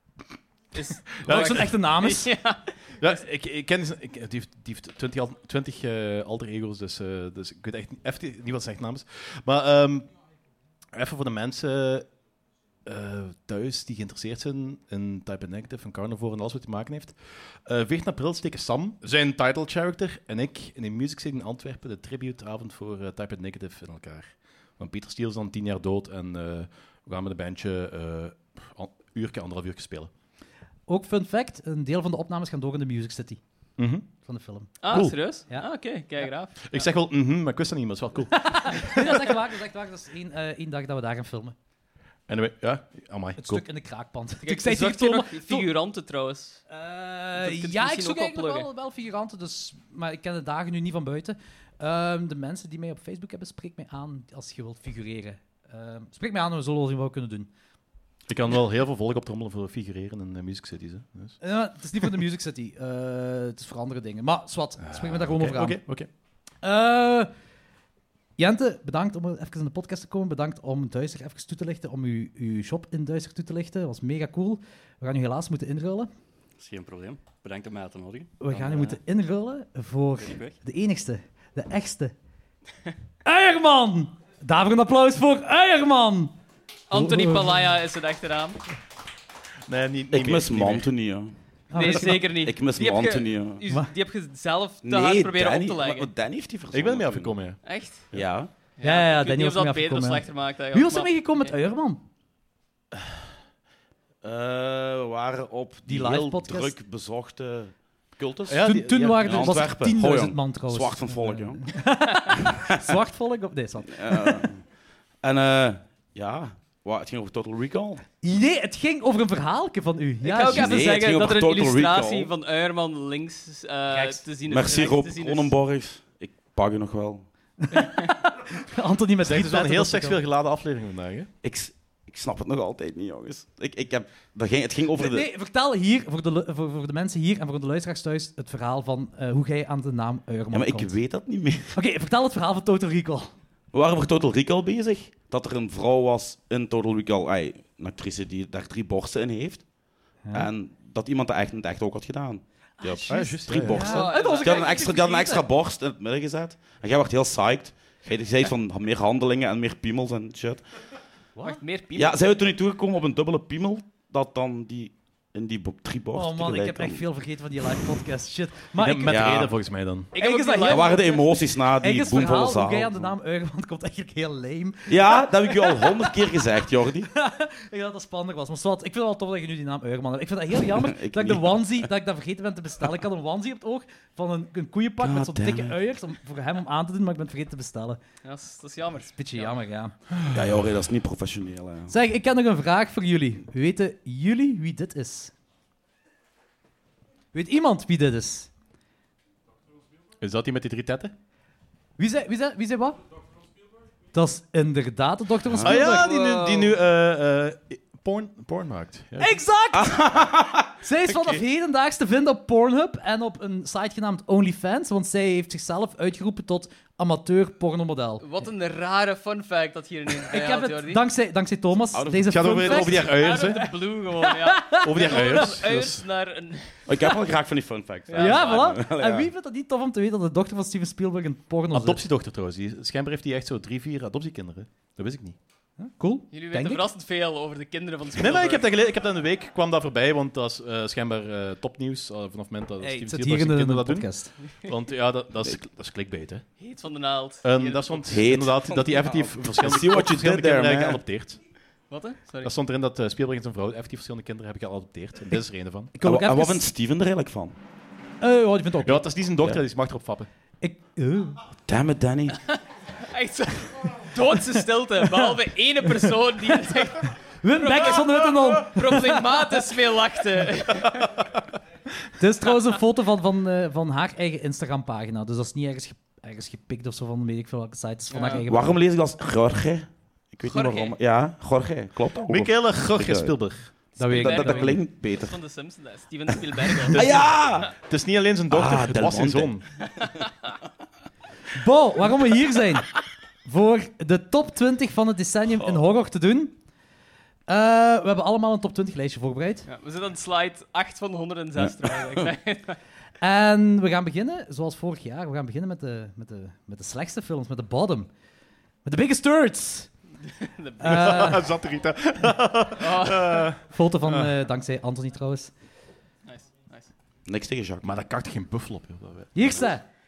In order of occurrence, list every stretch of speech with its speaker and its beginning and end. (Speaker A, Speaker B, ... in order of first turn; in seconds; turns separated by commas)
Speaker A: 0.7-2.7, Speaker B: 1.2-1.7, Speaker C: 1.2-2.3, Speaker B: 3.0-10.1, Speaker B: 10.9-12.1, Speaker B: 12.8-30.1, Speaker C: 30.9-33.4, Speaker B: 33.8-34.0, Speaker C: 34.1-35.7, Speaker A: 34.8-36.9, Speaker B: 34.9-35.2, Speaker B: 36.7-39.1, Speaker C: 38.4-41.5, Speaker B: 42.3-43.6, Speaker C: 43.4-45.7, Speaker A: 44.4-46.6, Speaker C: 46.7-57.5, Speaker A: 47.4-48.7, Speaker B: 58.3-61.4, Speaker C: 61.4-65.8, Speaker B: 64.8-66.1, Speaker C: 66.6-67.3, Speaker C: 68.4-76.1, Speaker D: 76.6-79.0, Speaker C: 78.4-82.1, Speaker D: 80.2-80.6, Speaker C: 83.2-86.3, Speaker A: 86.9-88.6, Speaker C: 86.9-87.6, Speaker B: 89.7-90.9, Speaker E: 90.1-93.6, Speaker C: 91.7-92.3, Speaker A: 91.7-96.1, Speaker E: 94.8-97.6, Speaker B: 96.7-97.6, Speaker A: 97.6-98.1, Speaker E: 98.1-98.5, Speaker A: 98.8-101.5, Speaker C: 98.8-102.0, Speaker E: 104.2-111.7, Speaker C: 105.8-106.7, Speaker B: 108.5-109.6, Speaker C: 108.6-114.5, Speaker E: 113.8-114.7, Speaker E: 115.2-118.0, Speaker C: 118.2-120.9, Speaker A: 120.2-125.5, Speaker E: 120.5-122.3, Speaker C: 123.9-124.2, Speaker E: 124.5-127.2, Speaker C: 127.6-130.2, Speaker A: 127.7-128.1, Speaker B: 129.2-131.3, Speaker E: 131.4-135.3, Speaker C: 134.9-141.0, Speaker E: 140.5-141.8, Speaker C: 141.7-143.3, Speaker E: 143.7-149.7, Speaker E: 150.3-160.6, Speaker C: 152.8-155.4, Speaker B: 153.1-154.1, Speaker A: 153.8-154.8, Speaker A: 161.4-162.2, Speaker E: 161.9-167.0, Speaker C: 166.1-169.4, Speaker B: 168.8-170.1, Speaker E: 169.0-169.5, Speaker A: 170.1-171.3, Speaker C: 170.1-171.0, Speaker E: 170.6-173.2, Speaker C: 171.8-176.1, Speaker E: 174.9-177.1, Speaker C: 177.1-188.0, Speaker E: 180.7-181.9, Speaker E: 185.0-185.8, Speaker A: 188.2-189.5, Speaker C: 189.2-189.9, Speaker E: 190.3-191.9, Speaker C: 191.9-195.3, Speaker C: 197.3-198.5, Speaker B: 200.2-201.1, Speaker C: 202.0-203.0, Speaker C: 204.1-206.1, Speaker E: 205.4-205.8, Speaker B: 205.6-209.4, Speaker A: 205.8-206.7, Speaker C: 209.2-210.0, Speaker E: 209.7-210.7, Speaker C: 210.8-218.2, Speaker A: 218.2-221.0, Speaker C: 220.3-223.1, Speaker E: 221.9-222.7, Speaker B: 222.3-223.7, Speaker A: 222.7-227.1, Speaker C: 224.4-225.4, Speaker B: 224.8-226.0, Speaker E: 226.9-229.3, Speaker A: 228.1-228.7, Speaker C: 228.1-232.0, Speaker B: 231.7-235.4, Speaker C: 235.8-236.8, Speaker A: 236.3-238.7, Speaker B: 238.2-246.4, Speaker C: 242.8-244.3, Speaker A: 246.6-248.2, Speaker B: 247.4-251.4, Speaker E: 248.1-251.0, Speaker A: 251.9-252.5, Speaker B: 252.4-255.9, Speaker C: 255.9-256.6, Speaker E: 256.0-257.6, Speaker C: 258.2-259.1, Speaker B: 258.8-260.3, Speaker C: 260.6-261.4, Speaker E: 261.6-262.4, Speaker A: 263.1-271.2, Speaker C: 265.0-265.3, Speaker C: 267.4-269.2, Speaker C: 272.2-278.8, Speaker A: 278.1-278.4, Speaker E: 278.5-285.4, Speaker A: 280.4-280.9, Speaker B: 282.2-283.7, Speaker C: 284.0-284.8, Speaker A: 284.0-287.7, Speaker E: 286.9-287.7, Speaker B: 286.9-289.6, Speaker E: 288.5-289.8, Speaker C: 291.5-292.9, Speaker C: 293.4-296.6, Speaker C: 297.5-299.7, Speaker A: 299.7-302.8, Speaker C: 303.2-308.1, Speaker C: 308.8-309.9, Speaker A: 310.2-311.4, Speaker C: 310.8-311.4, Speaker B: 310.8-314.3, Speaker A: 312.8-313.5, Speaker C: 313.7-315.5, Speaker A: 316.2-316.9, Speaker E: 317.2-318.0, Speaker B: 317.8-319.7, Speaker C: 319.3-319.8